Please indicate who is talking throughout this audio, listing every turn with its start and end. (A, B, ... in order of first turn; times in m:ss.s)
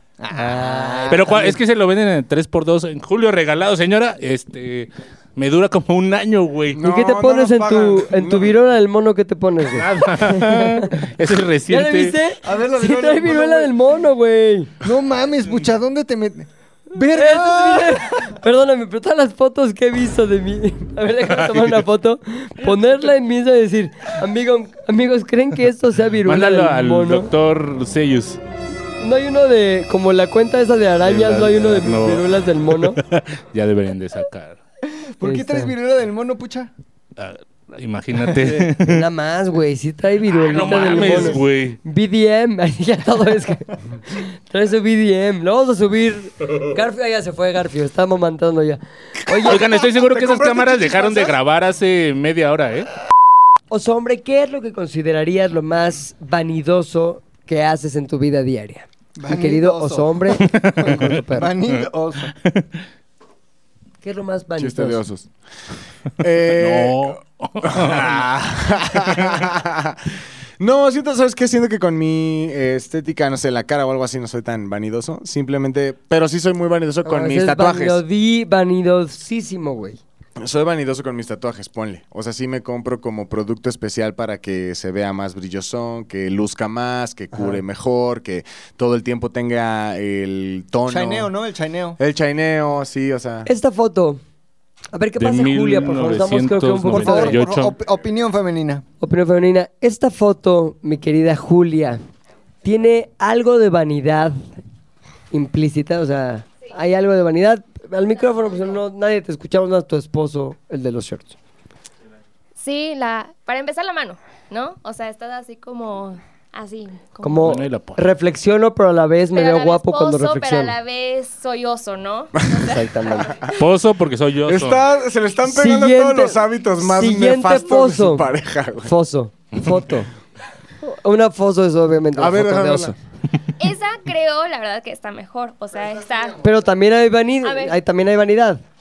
0:00.2-0:01.5 A
0:00.3-0:01.6 B
0:01.1-0:06.8 C
0:06.7-0:08.5 D
0:06.8-0:11.0 B
0:09.7-0:12.2 C
0:11.7-0:14.7 B
0:12.4-0:13.8 A
0:14.8-0:18.4 A
0:17.1-0:27.3 B
0:21.3-0:21.8 C
0:26.2-0:28.4 C
0:29.0-0:33.0 B
0:31.0-0:34.6 C
0:34.8-0:36.7 A
0:35.2-0:35.7 B
0:37.2-0:39.1 C
0:38.4-0:49.6 B
0:40.4-0:41.8 C
0:40.9-0:41.3 A
0:49.4-0:52.9 C
0:49.5-0:51.4 A
0:53.7-1:01.5 B
0:59.2-1:02.3 A
1:00.4-1:01.1 C
1:01.7-1:02.8 C
1:04.0-1:05.0 B
1:04.6-1:05.3 D
1:06.2-1:18.0 D
1:06.5-1:08.3 C
1:09.0-1:09.4 C
1:17.0-1:20.0 B
1:20.4-1:31.3 D
1:30.9-1:32.0 A
1:32.0-1:33.5 D
1:33.5-1:34.2 B
1:34.9-1:37.4 B
1:35.2-1:37.8 C
1:36.9-1:38.8 A
1:39.0-1:42.0 B
1:42.6-1:44.4 B
1:45.3-1:51.4 B
1:52.6-1:57.6 E
1:57.2-2:00.8 B
1:57.4-1:58.0 C
1:59.3-2:03.6 E
2:02.6-2:03.4 B
2:03.6-2:04.8 C
2:04.4-2:08.9 D
2:05.4-2:08.3 B
2:08.8-2:10.1 B
2:10.8-2:13.0 B
2:12.2-2:12.9 D
2:13.6-2:16.4 E
2:16.4-2:18.6 B
2:17.4-2:17.8 E